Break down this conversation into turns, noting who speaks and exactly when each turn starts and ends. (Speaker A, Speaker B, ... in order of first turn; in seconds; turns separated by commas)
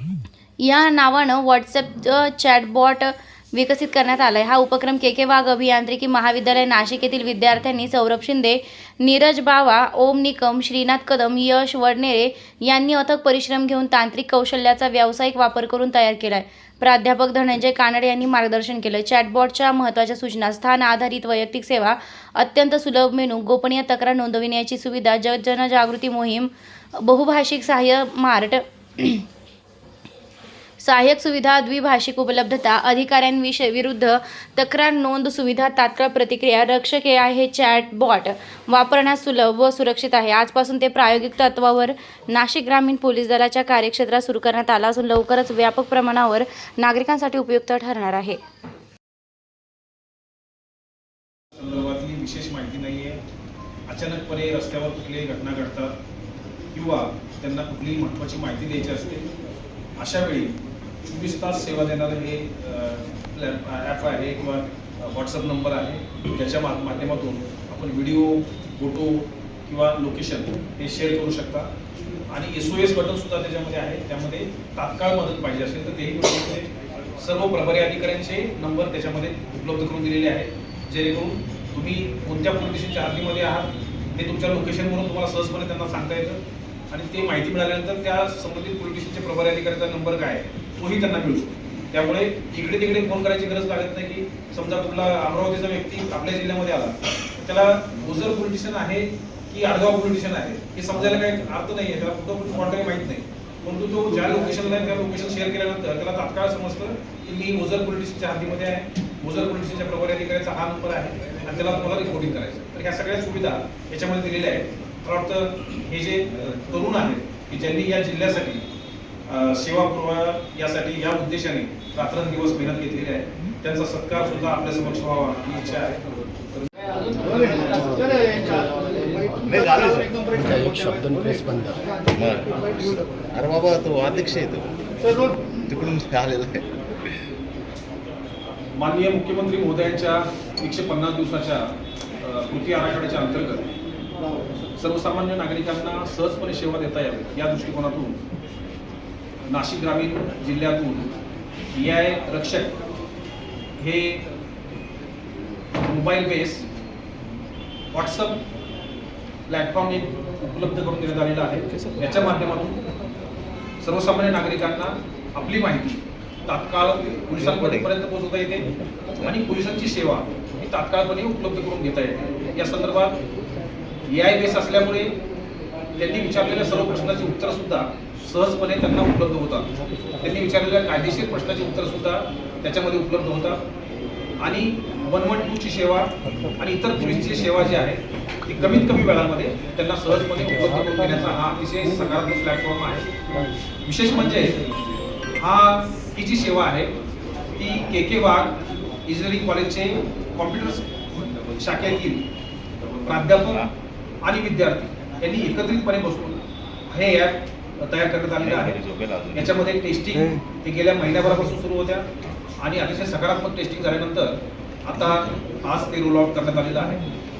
Speaker A: 0.6-29.2, Speaker A: 30.8-48.4, Speaker B: 51.5-53.2, Speaker B: 53.9-56.0, Speaker B: 56.7-59.3, Speaker B: 60.0-71.7, Speaker B: 72.3-118.7, Speaker B: 119.3-126.7, Speaker C: 127.3-127.8, Speaker D: 127.8-128.9, Speaker C: 129.4-130.3, Speaker D: 130.3-131.9, Speaker C: 132.1-134.7, Speaker C: 135.6-136.7, Speaker B: 138.7-143.7, Speaker B: 144.8-148.2, Speaker B: 149.5-151.1, Speaker B: 151.7-152.8, Speaker B: 153.8-154.2, Speaker B: 155.8-156.7, Speaker B: 157.9-158.4, Speaker B: 159.5-162.8, Speaker B: 163.8-168.7, Speaker C: 167.4-167.9, Speaker B: 169.2-173.2, Speaker B: 174.1-175.2, Speaker B: 176.0-179.7, Speaker B: 180.2-183.6, Speaker B: 184.4-193.1, Speaker B: 193.8-194.6, Speaker B: 195.4-196.9, Speaker B: 197.6-202.3, Speaker B: 203.0-203.7, Speaker B: 204.2-208.8, Speaker C: 208.4-209.6, Speaker B: 209.3-212.1, Speaker B: 212.6-217.0